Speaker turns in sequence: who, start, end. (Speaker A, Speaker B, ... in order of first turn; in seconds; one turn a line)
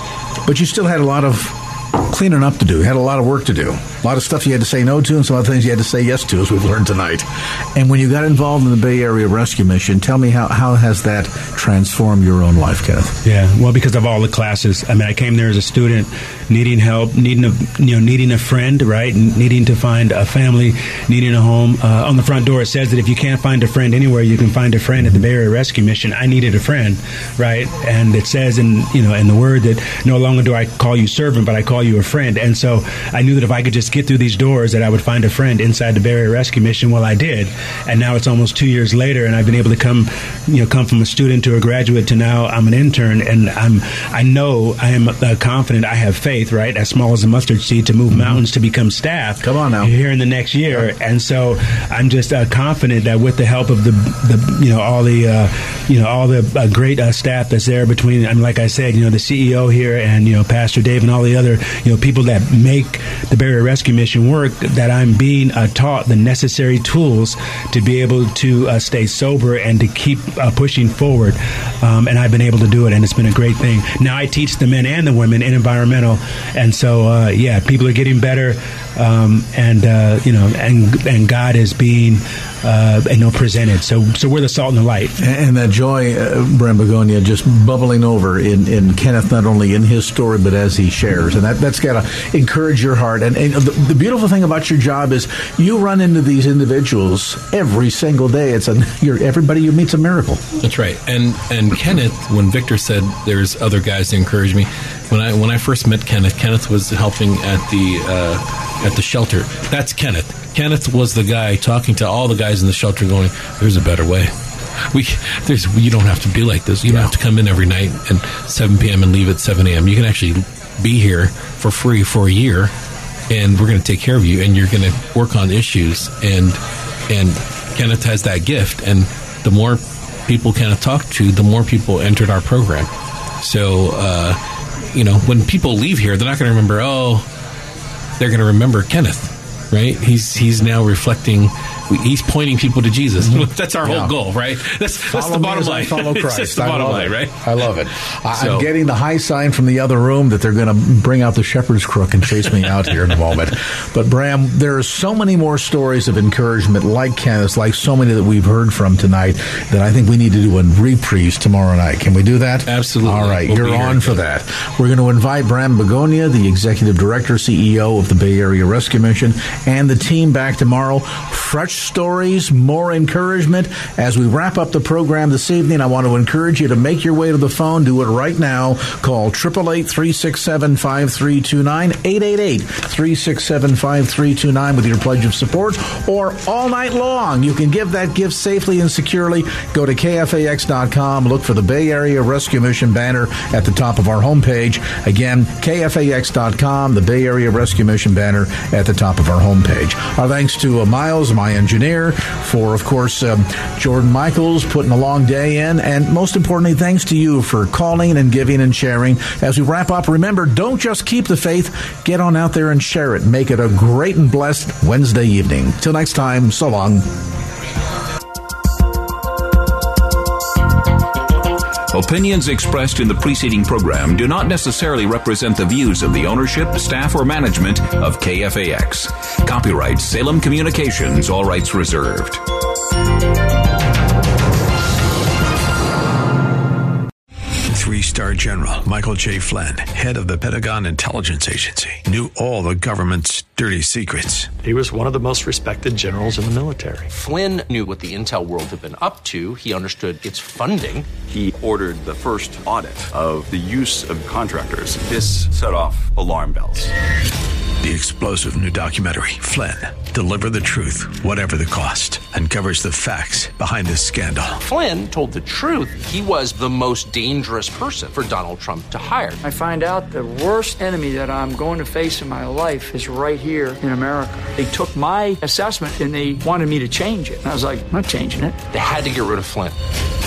Speaker A: 0.5-13.1
Speaker B: 13.2-85.1
Speaker A: 49.4-49.9
Speaker A: 85.2-100.4
Speaker C: 100.6-114.3
Speaker C: 114.9-122.7
Speaker C: 123.3-132.9
Speaker C: 133.4-134.4
Speaker C: 134.9-137.3
Speaker C: 138.2-147.6
Speaker A: 143.2-144.1
Speaker A: 145.1-217.1
Speaker C: 148.3-148.7
Speaker C: 162.7-164.2
Speaker D: 221.9-232.4
Speaker E: 237.7-244.5
Speaker F: 244.6-247.1
Speaker G: 247.1-251.1
Speaker H: 251.2-256.9
Speaker E: 257.8-264.6
Speaker G: 264.6-269.4
Speaker I: 269.4-278.6
Speaker G: 278.7-279.8